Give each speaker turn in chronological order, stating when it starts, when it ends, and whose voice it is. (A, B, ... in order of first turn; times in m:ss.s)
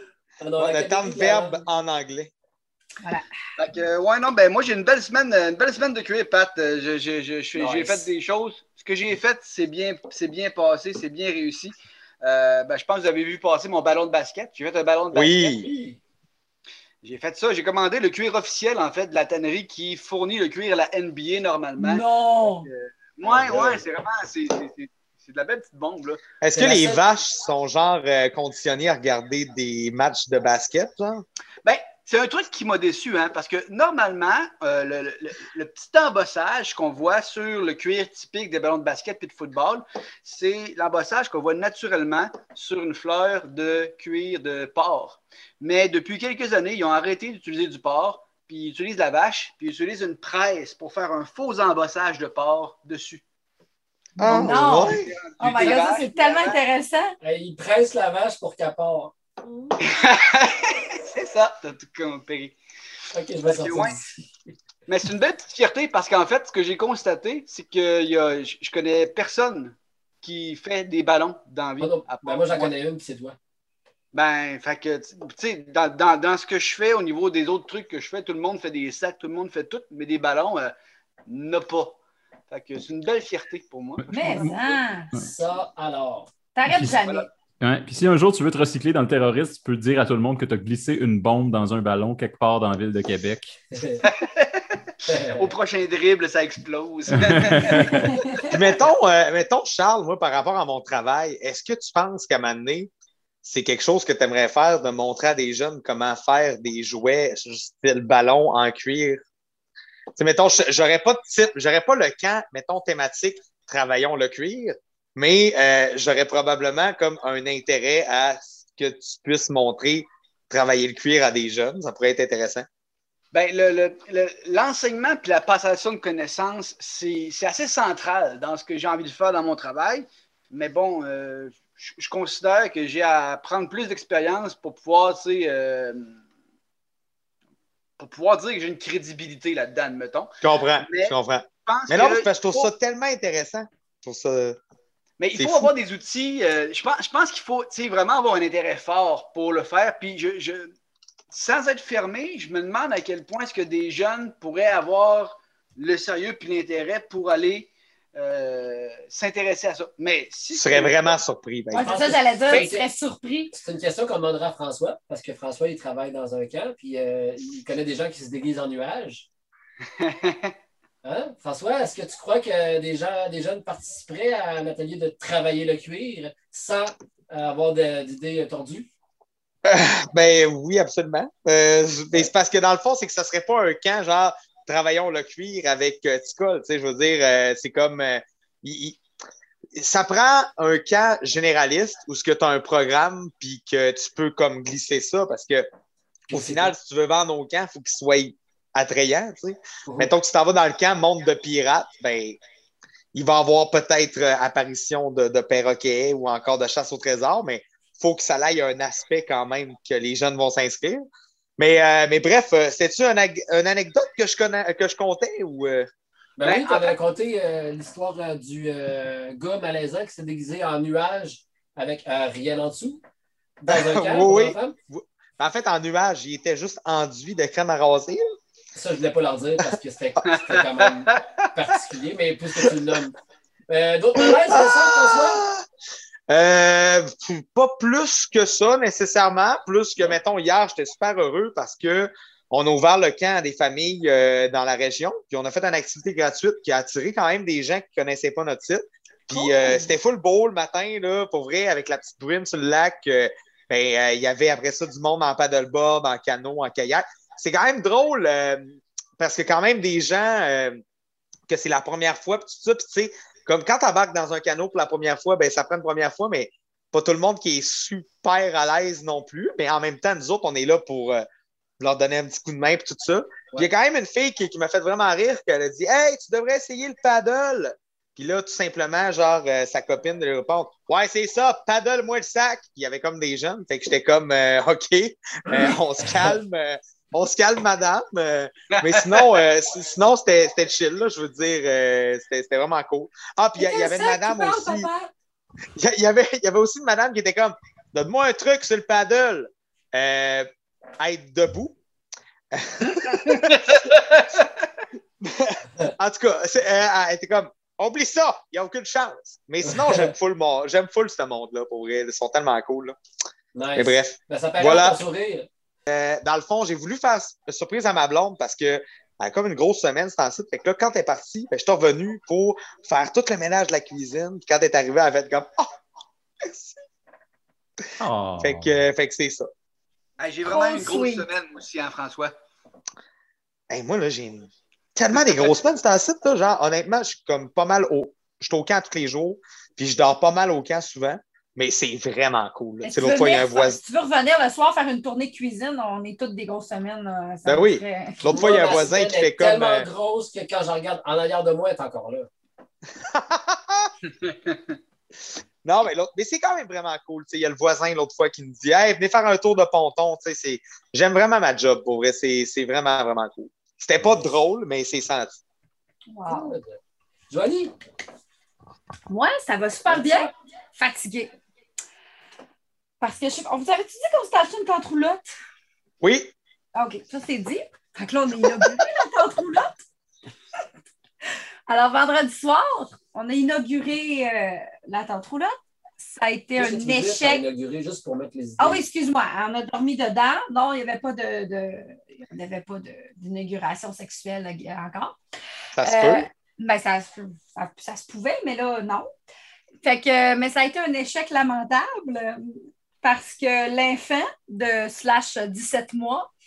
0:00.4-0:01.6 A
0:00.6-0:02.3 B
0:03.0-0:03.3 C
0:03.6-0:15.7 D
0:07.6-0:08.1 A
0:15.1-0:15.7 B
0:15.7-0:16.0 A
0:17.0-0:26.2 D
0:21.8-0:22.7 C
0:23.3-0:23.8 B
0:26.4-0:31.2 B
0:26.5-0:27.0 A
0:31.6-0:53.2 D
0:54.2-0:55.1 B
0:54.2-0:57.2 C
0:55.0-0:56.6 D
0:55.6-0:56.0 A
0:57.2-0:59.1 A
0:59.8-1:02.6 D
1:03.1-1:04.1 A
1:03.4-1:04.0 D
1:04.9-1:12.7 D
1:11.8-1:13.4 A
1:14.1-1:20.7 D
1:21.3-1:22.0 D
1:22.5-1:24.5 D
1:24.0-1:25.3 E
1:24.1-1:25.1 C
1:25.2-1:26.3 A
1:26.6-1:27.3 C
1:26.7-1:27.0 E
1:27.6-1:33.6 E
1:33.7-1:34.1 A
1:34.0-1:34.6 D
1:35.1-1:35.5 A
1:35.2-1:38.4 D
1:37.1-1:38.1 E
1:38.5-1:42.9 B
1:43.4-1:49.2 B
1:50.2-2:02.7 B
2:03.3-2:16.2 D
2:18.0-2:21.2 D
2:20.4-2:24.6 B
2:21.7-2:22.7 D
2:25.2-2:30.7 D
2:25.4-2:25.7 B
2:31.3-2:41.2 D
2:40.5-2:42.1 B
2:41.7-2:43.5 C
2:41.8-2:42.9 A
2:43.5-2:49.3 A
2:50.0-2:50.5 D
2:51.0-2:58.9 A
2:59.6-3:09.0 B
3:09.8-3:15.7 B
3:16.3-3:16.8 A
3:16.3-3:22.4 B
3:19.9-3:20.1 A
3:23.1-3:31.0 B
3:31.6-3:35.9 B
3:36.4-3:43.0 A
3:36.4-3:37.0 D
3:43.6-3:44.7 A
3:43.7-3:48.2 B
3:48.7-3:53.2 A
3:50.3-3:51.2 D
3:53.7-3:55.4 A
3:54.2-3:55.6 B
3:56.3-4:20.8 B
4:09.3-4:09.9 C
4:21.5-4:31.2 B
4:31.8-4:54.9 B
4:48.8-4:49.4 D
4:53.6-4:55.1 C
4:55.8-5:00.5 B
5:01.0-5:01.8 B
5:02.5-5:03.9 B
5:03.3-5:04.4 D
5:05.2-5:13.0 B
5:09.6-5:10.1 A
5:13.6-5:15.5 A
5:13.8-5:15.0 B
5:15.9-5:25.7 B
5:26.4-5:26.8 B
5:28.0-5:28.8 E
5:28.4-5:29.5 B
5:30.2-5:32.4 D
5:30.4-5:31.3 C
5:33.7-5:43.8 B
5:42.8-5:48.2 C
5:47.5-5:49.9 B
5:48.3-5:52.3 A
5:53.0-5:53.9 B
5:54.3-5:54.6 D
5:55.6-6:05.4 B
6:06.1-6:06.6 C
6:06.3-6:06.8 A
6:07.3-6:07.7 A
6:09.1-6:11.3 C
6:09.9-6:10.3 A
6:13.0-6:15.3 C
6:16.0-6:16.3 B
6:16.8-6:19.8 C
6:21.7-6:27.4 C
6:26.6-6:28.8 A
6:28.6-6:35.2 C
6:35.8-6:36.2 B
6:35.8-6:39.1 C
6:39.8-6:46.3 C